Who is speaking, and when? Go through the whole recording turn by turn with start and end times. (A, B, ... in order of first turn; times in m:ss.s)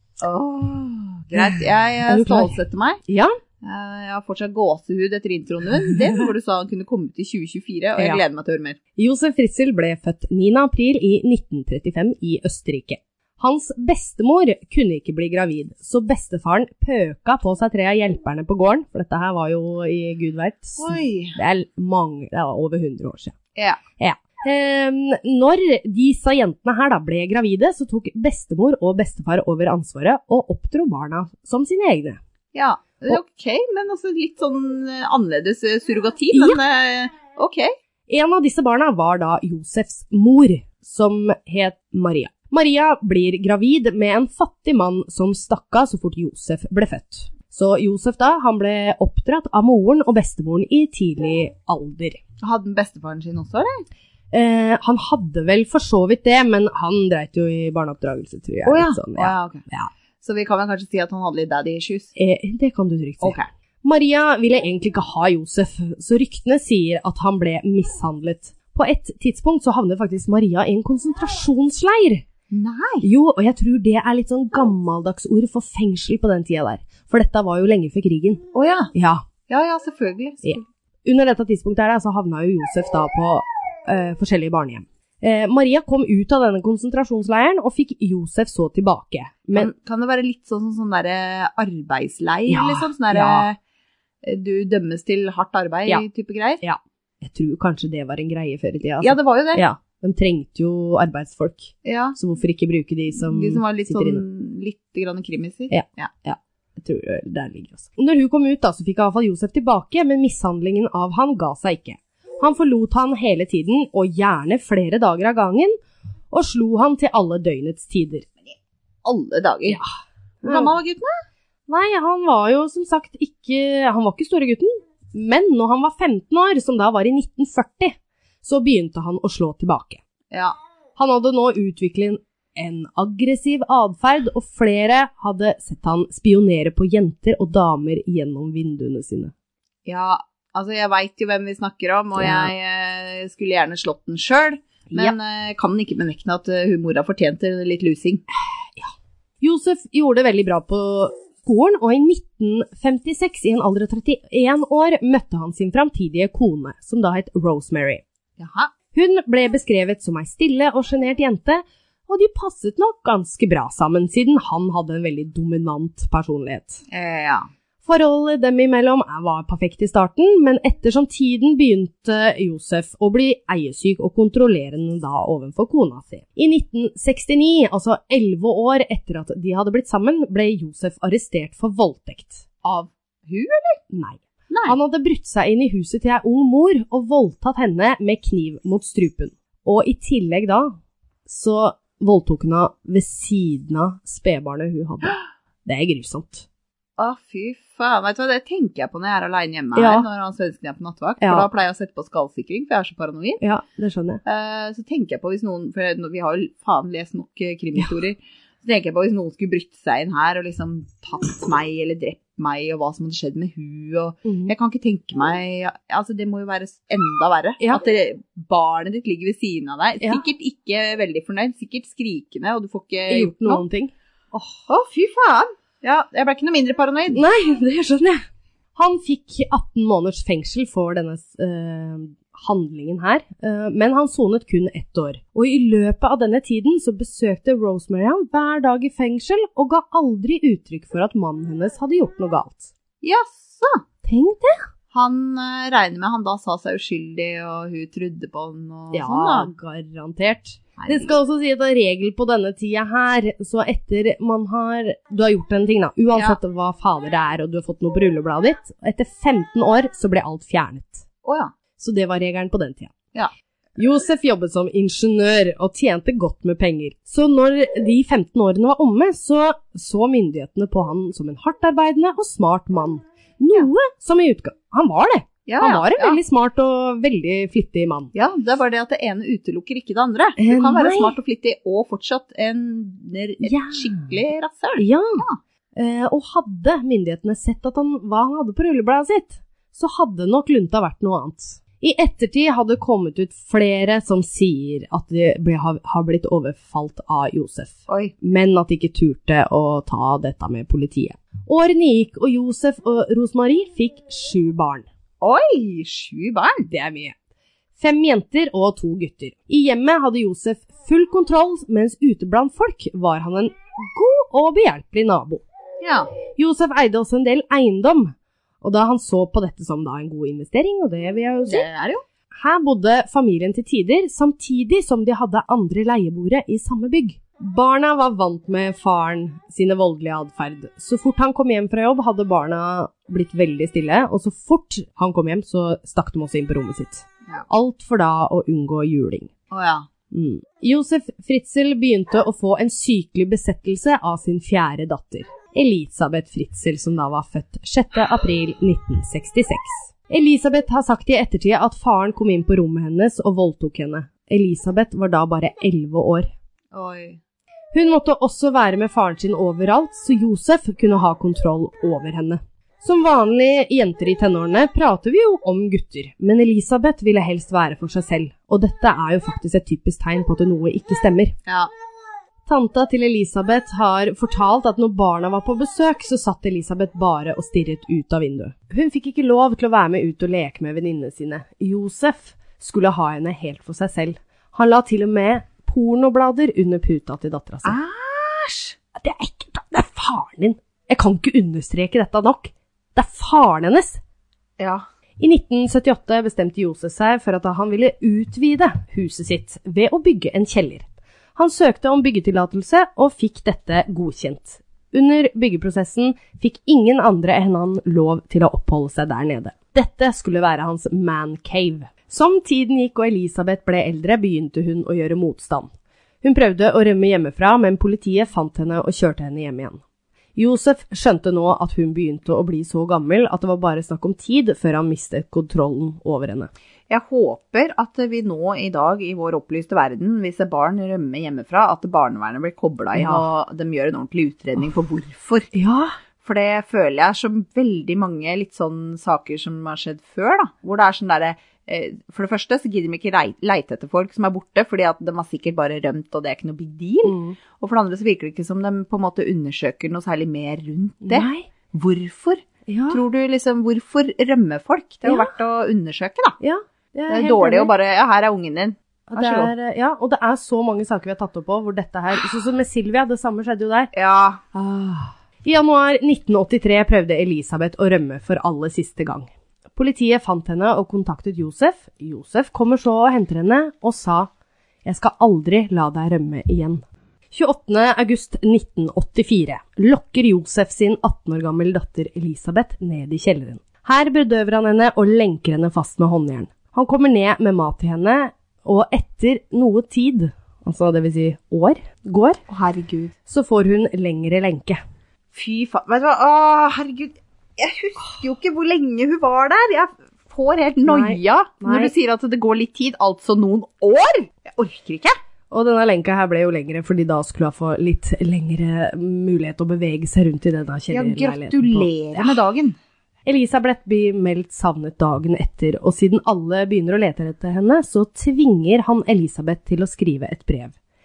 0:00.2-0:03.0 A
0:01.4-0:03.4 B
0:03.6-0:08.8 A
0:09.0-0:23.4 B
0:20.8-0:21.4 A
0:24.0-0:32.2 B
0:32.5-0:37.7 A
0:36.3-0:36.6 B
0:38.1-0:52.2 B
0:52.4-0:53.8 A
0:54.3-0:59.9 B
0:58.7-0:59.6 A
1:00.2-1:02.1 A
1:02.2-1:12.2 B
1:12.5-1:13.1 A
1:13.0-1:18.4 B
1:18.5-1:18.9 A
1:18.9-1:19.2 B
1:19.5-1:20.6 A
1:20.4-1:29.7 B
1:29.5-1:33.6 A
1:32.5-1:33.5 B
1:34.2-1:36.6 A
1:36.6-1:44.2 B
1:39.0-1:39.6 A
1:41.8-1:42.2 A
1:43.2-1:46.1 A
1:45.7-1:55.8 B
1:56.3-1:58.3 B
1:59.0-1:59.8 A
2:00.4-2:01.1 A
2:00.4-2:00.8 B
2:01.7-2:10.0 B
2:11.0-2:19.3 B
2:19.8-2:28.2 A
2:22.2-2:22.5 B
2:24.9-2:25.2 B
2:28.8-2:38.0 B
2:38.4-2:38.7 A
2:38.9-2:46.8 B
2:46.9-2:47.5 A
2:47.8-3:02.5 B
3:02.6-3:03.8 A
3:03.9-3:16.5 B
3:04.5-3:04.8 A
3:17.0-3:23.4 A
3:19.8-3:20.1 B
3:21.2-3:21.5 B
3:23.4-3:24.2 B
3:24.2-3:43.6 A
3:34.2-3:34.5 B
3:43.1-3:43.9 B
3:44.3-3:47.2 A
3:47.1-3:48.2 B
3:48.8-4:02.7 B
4:03.0-4:03.8 A
4:04.0-4:04.7 B
4:04.9-4:09.5 A
4:08.9-4:21.1 B
4:10.8-4:11.1 A
4:21.2-4:21.5 A
4:21.8-4:23.0 B
4:23.8-4:38.1 B
4:35.5-4:36.2 A
4:38.1-4:45.4 A
4:40.4-4:41.2 B
4:43.4-4:44.1 B
4:44.8-5:04.9 B
4:57.9-4:58.1 A
5:05.2-5:06.7 A
5:06.7-5:07.2 B
5:07.8-5:15.4 B
5:15.8-5:16.1 A
5:16.4-5:21.7 B
5:21.5-5:22.0 A
5:22.3-5:39.3 B
5:39.5-5:39.9 A
5:40.1-5:56.3 B
5:56.7-5:57.2 A
5:57.7-6:11.4 B
6:12.5-6:27.8 B
6:27.6-6:28.8 A
6:29.0-6:34.0 B
6:34.6-6:34.8 A
6:35.2-6:40.8 B
6:41.4-6:55.7 B
6:56.2-6:59.8 B
7:00.4-7:06.5 B
7:06.9-7:15.5 A
7:13.0-7:13.2 B
7:15.5-7:15.9 B
7:16.2-7:36.4 A
7:27.0-7:27.4 B
7:31.0-7:31.5 B
7:32.7-7:33.0 B
7:35.0-7:35.3 B
7:36.4-7:37.7 B
7:37.1-7:39.5 A
7:39.1-7:43.9 B
7:43.9-7:44.4 A
7:44.5-7:54.3 B
7:54.8-8:12.4 B
8:12.5-8:13.1 A
8:13.3-8:14.8 B
8:15.3-8:25.2 A
8:20.9-8:21.9 B
8:25.5-8:32.4 B
8:30.9-8:32.8 A
8:33.3-8:40.8 B